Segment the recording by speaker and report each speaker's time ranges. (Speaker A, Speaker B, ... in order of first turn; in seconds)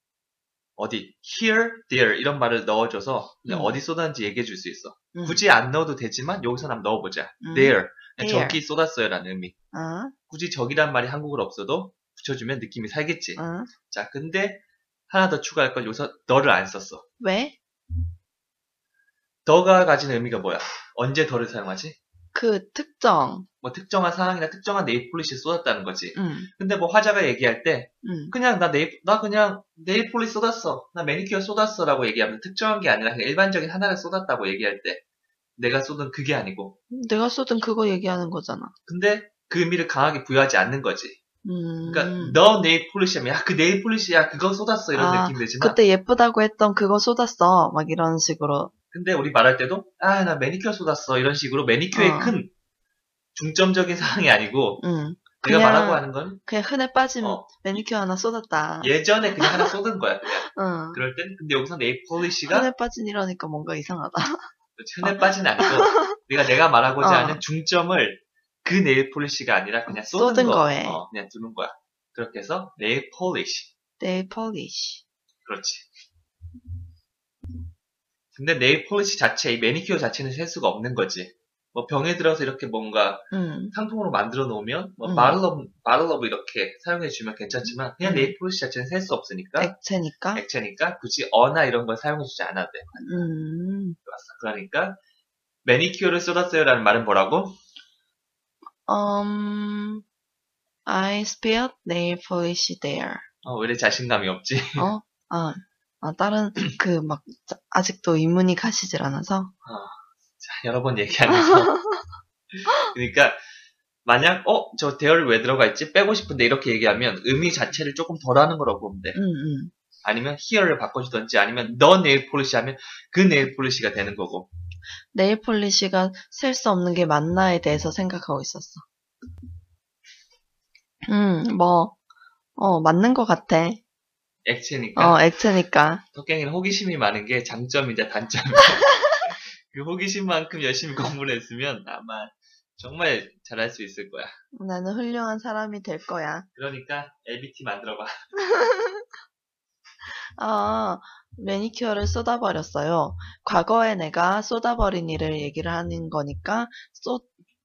Speaker A: 0.8-9.5, 10.3-17.1, 19.5-22.0, 23.6-35.0, 35.6-36.8, 38.9-41.2, 41.8-45.8, 48.9-52.5, 53.3-54.8, 55.4-56.4, 57.2-57.8, 58.8-62.7, 64.8-73.7, 75.5-75.9, 78.3-89.7, 90.3-93.2, 94.0-95.0, 95.7-97.6, 103.4-104.8, 109.7-111.7, 112.5-113.4, 114.0-119.2, 120.0-124.5, 134.5-135.2, 136.1-144.3, 146.5-148.2
Speaker B: 3.5-3.7, 5.1-5.4, 7.4-8.6, 9.7-10.1, 13.4-13.7, 17.2-17.6, 22.3-23.5, 26.1-26.5, 28.0-28.3, 36.9-38.7, 41.5-42.4, 45.0-48.7, 51.9-52.4, 54.8-59.7, 60.5-61.0, 62.5-64.5, 65.0-66.2, 67.0-67.4, 69.9-71.0, 74.0-75.0, 83.3-83.7, 85.0-85.4, 88.0-88.3, 89.6-90.4, 93.0-94.0, 98.9-100.0, 100.8-103.2, 104.8-109.5, 111.3-112.1, 119.2-119.7, 125.1-128.8, 131.1-132.0, 132.6-133.8, 135.0-136.0, 144.5-146.5, 148.5-149.0, 150.4-157.3